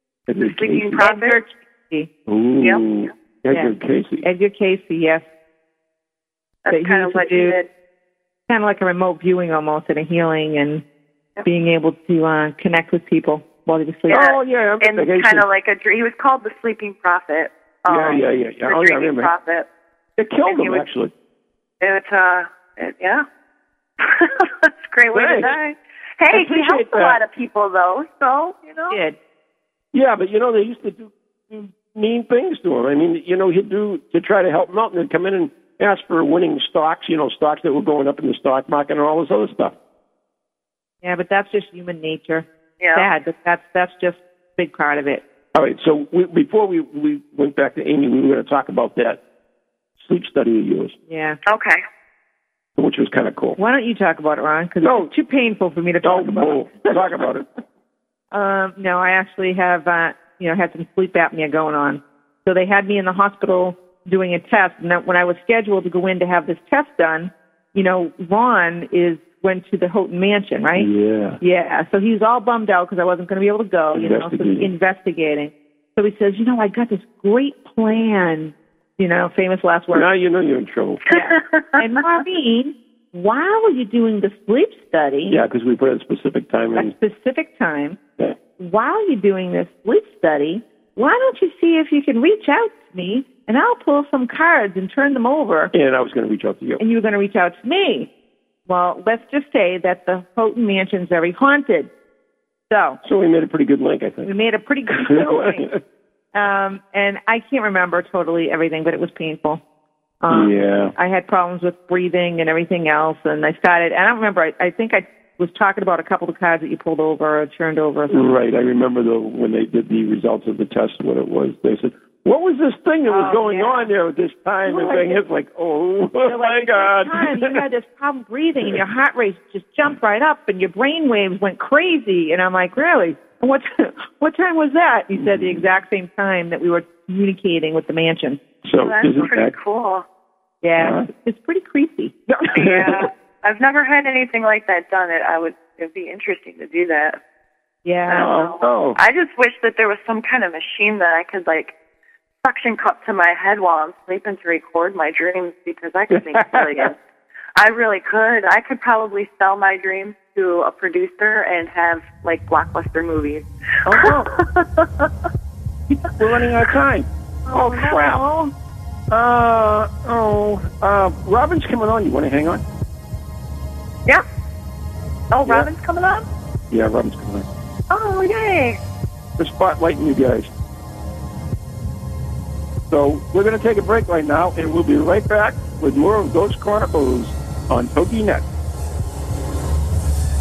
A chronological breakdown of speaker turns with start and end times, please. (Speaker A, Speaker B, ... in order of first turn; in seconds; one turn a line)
Speaker A: 0.3-1.0
Speaker B: 0.4-1.4
Speaker C: 0.9-2.1
Speaker A: 2.3-4.2
Speaker B: 2.6-2.9
Speaker C: 3.5-5.2
Speaker B: 6.6-7.7
Speaker C: 6.7-7.6
Speaker C: 8.5-10.8
Speaker C: 11.4-14.2
Speaker A: 14.1-15.4
Speaker B: 14.1-19.7
Speaker A: 17.9-19.3
Speaker A: 20.2-21.1
Speaker B: 20.4-20.9
Speaker B: 21.8-23.2
Speaker B: 24.0-29.0
Speaker A: 25.1-25.6
Speaker A: 26.3-27.2
Speaker C: 28.9-29.2
Speaker A: 29.9-39.7
Speaker C: 41.0-45.2
Speaker B: 42.8-43.1
Speaker A: 45.5-49.2
Speaker A: 50.0-50.9
Speaker C: 51.1-51.4
Speaker B: 51.4-51.8
Speaker A: 52.8-53.6
Speaker C: 53.6-57.0
Speaker A: 54.8-55.1
Speaker A: 56.0-57.5
Speaker C: 58.3-70.9
Speaker A: 70.8-71.4
Speaker C: 71.4-80.1
Speaker A: 73.9-74.7
Speaker A: 79.9-81.0
Speaker C: 81.1-85.4
Speaker B: 81.3-81.8
Speaker A: 85.3-86.9
Speaker C: 86.7-88.0
Speaker C: 88.6-95.7
Speaker A: 95.7-96.8
Speaker C: 96.8-98.1
Speaker C: 98.7-101.9
Speaker C: 102.7-103.0
Speaker A: 103.0-104.3
Speaker C: 104.2-105.7
Speaker A: 105.0-105.8
Speaker C: 106.3-109.6
Speaker C: 110.2-118.2
Speaker A: 110.3-110.9
Speaker A: 118.1-127.6
Speaker C: 123.1-123.9
Speaker C: 124.7-125.2
Speaker C: 126.2-138.4
Speaker A: 135.2-135.6
Speaker A: 138.6-139.5
Speaker B: 138.8-140.0
Speaker C: 140.6-142.2
Speaker A: 140.8-141.1
Speaker A: 142.3-143.1
Speaker B: 142.5-147.2
Speaker C: 147.8-148.3
Speaker B: 148.1-151.7
Speaker A: 148.1-149.0
Speaker B: 152.4-157.0
Speaker A: 156.1-156.9
Speaker B: 157.6-165.1
Speaker C: 163.9-164.2
Speaker A: 163.9-164.2
Speaker A: 165.9-168.2
Speaker C: 167.5-168.5
Speaker A: 169.1-172.6
Speaker B: 175.3-176.2
Speaker A: 176.7-177.4
Speaker B: 177.9-178.8
Speaker A: 179.4-180.5
Speaker A: 182.9-188.4